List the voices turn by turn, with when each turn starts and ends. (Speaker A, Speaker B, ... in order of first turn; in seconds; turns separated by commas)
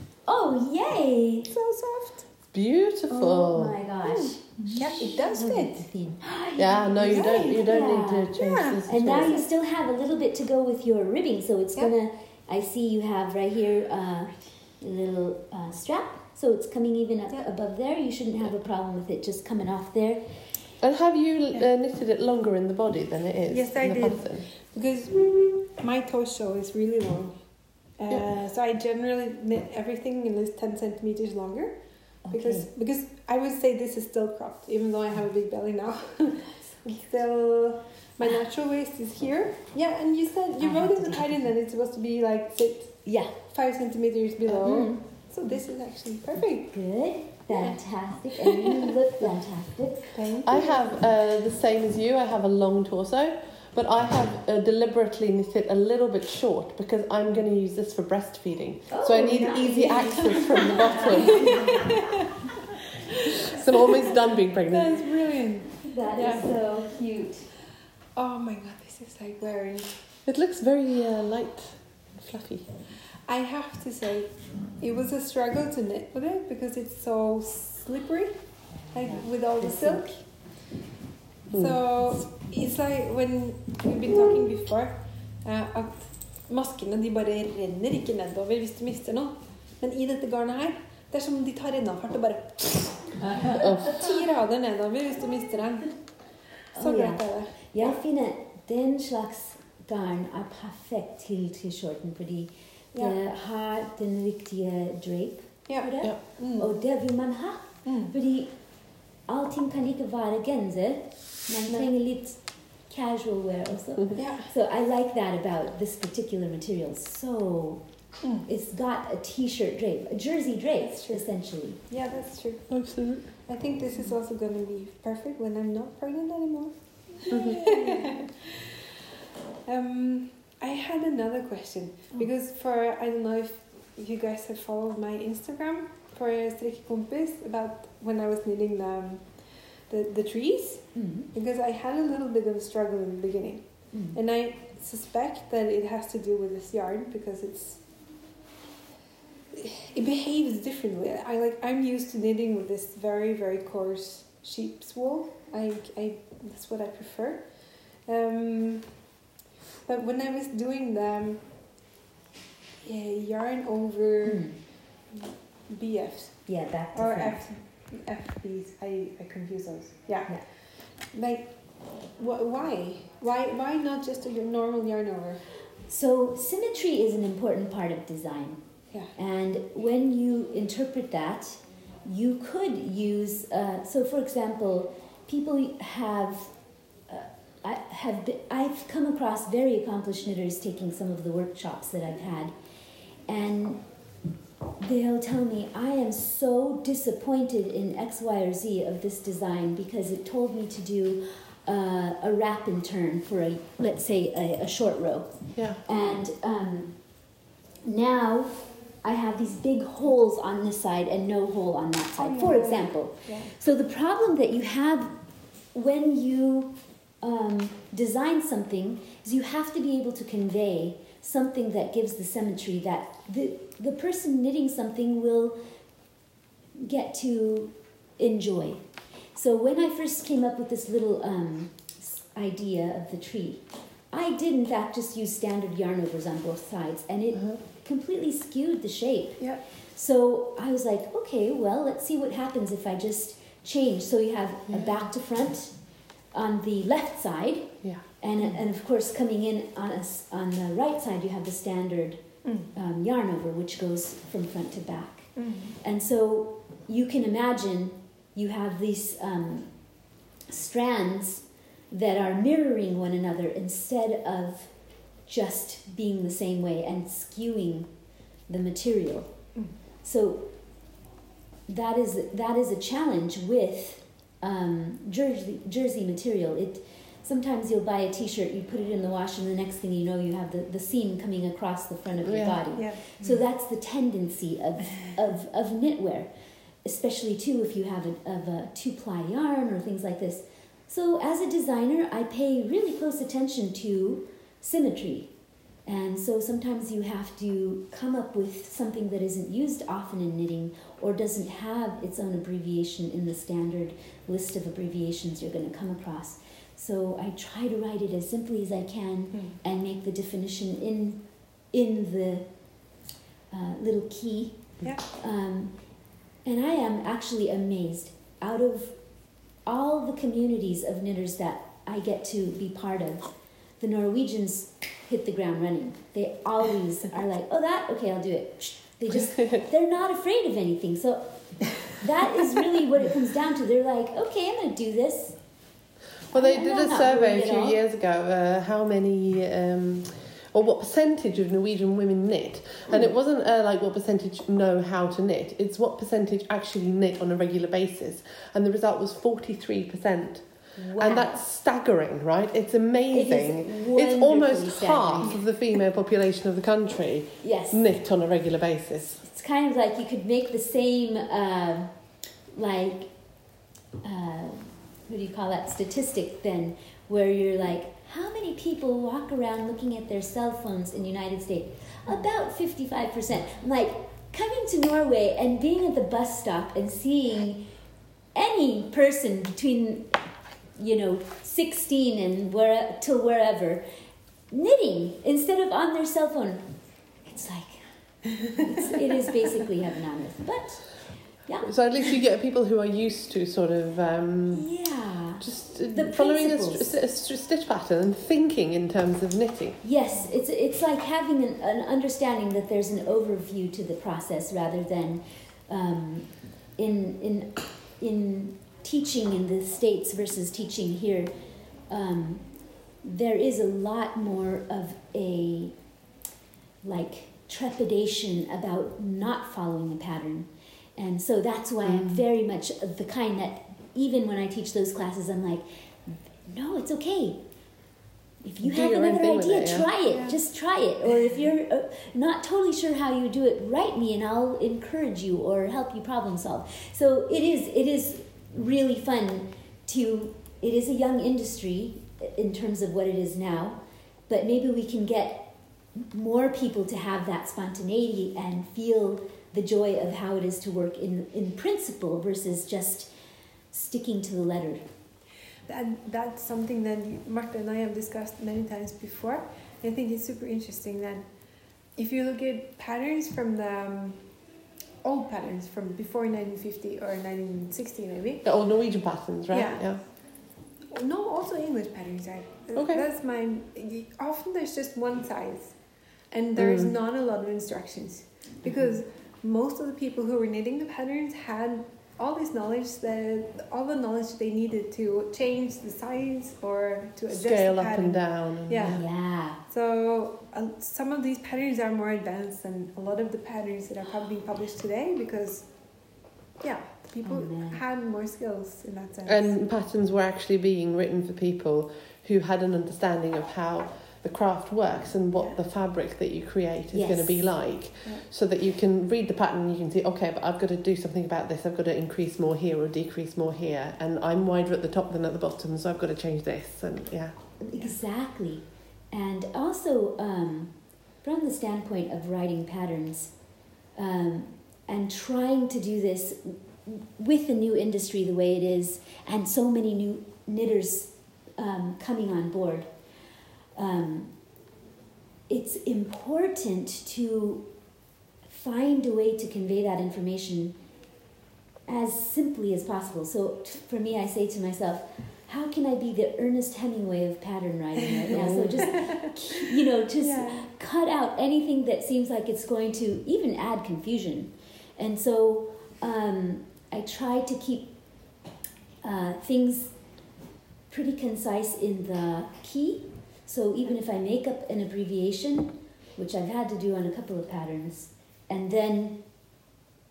Speaker A: 0.3-1.5, Speaker B: 1.5-2.5, Speaker C: 2.5-3.8, Speaker B: 3.1-5.9, Speaker A: 3.5-5.4, Speaker C: 5.4-5.7, Speaker A: 6.2-20.4, Speaker C: 6.5-9.4, Speaker B: 7.0-9.5, Speaker C: 20.8-24.5, Speaker B: 23.5-46.8, Speaker A: 32.2-32.7, Speaker A: 40.6-41.5, Speaker A: 43.0-43.3, Speaker A: 44.6-45.6, Speaker A: 46.7-50.2, Speaker B: 47.5-48.6, Speaker B: 50.1-51.0, Speaker C: 50.5-61.9, Speaker A: 58.9-62.0, Speaker B: 59.2-61.9, Speaker C: 63.5-65.1, Speaker B: 64.6-66.9, Speaker A: 65.9-67.5, Speaker B: 68.1-70.0, Speaker C: 70.3-72.7, Speaker B: 73.2-80.6, Speaker A: 79.0-80.2, Speaker C: 81.5-81.8, Speaker B: 81.5-98.0, Speaker C: 93.6-94.0, Speaker A: 96.7-121.8, Speaker B: 105.7-106.7, Speaker B: 107.8-108.1, Speaker B: 114.2-114.5, Speaker B: 120.8-128.5, Speaker C: 122.7-123.4, Speaker C: 127.3-127.6, Speaker B: 129.6-147.9, Speaker A: 140.9-141.3, Speaker A: 143.9-144.2, Speaker B: 149.5-159.1, Speaker B: 159.8-161.7, Speaker B: 162.8-175.5, Speaker A: 164.2-164.6, Speaker A: 166.4-167.4, Speaker A: 175.9-192.6, Speaker A: 193.2-194.1, Speaker A: 194.8-225.8, Speaker C: 205.6-205.8, Speaker B: 212.2-213.5, Speaker A: 226.7-270.9, Speaker B: 239.4-239.6, Speaker C: 244.7-245.1, Speaker B: 252.4-252.7, Speaker B: 255.3-255.8, Speaker A: 271.7-313.0, Speaker C: 282.2-282.8, Speaker B: 282.7-283.4, Speaker B: 309.3-309.6, Speaker A: 313.5-335.6, Speaker C: 336.3-359.2, Speaker A: 336.3-337.8, Speaker A: 350.8-351.4, Speaker A: 353.1-355.4, Speaker A: 357.4-357.8, Speaker A: 359.2-383.9, Speaker A: 384.4-391.8, Speaker C: 391.6-399.8, Speaker A: 394.5-396.9, Speaker A: 399.8-415.9, Speaker A: 416.8-427.5, Speaker C: 421.8-422.2, Speaker A: 428.4-453.1, Speaker C: 428.6-429.9, Speaker B: 430.1-430.4, Speaker A: 453.7-454.9, Speaker B: 455.7-461.3, Speaker B: 461.9-464.4, Speaker B: 465.0-468.5, Speaker C: 468.4-470.1, Speaker B: 469.5-499.6, Speaker C: 472.7-473.1, Speaker C: 476.6-476.9, Speaker C: 487.3-489.1, Speaker A: 488.8-489.6, Speaker A: 497.2-497.8, Speaker C: 499.2-517.5, Speaker B: 505.3-505.6, Speaker A: 506.9-507.6, Speaker B: 508.0-508.3, Speaker A: 517.6-533.2, Speaker A: 533.7-534.6, Speaker A: 535.5-537.9, Speaker A: 538.4-540.8, Speaker A: 541.9-558.4, Speaker C: 548.3-549.0, Speaker B: 550.2-550.7, Speaker A: 559.0-560.2, Speaker A: 560.9-569.6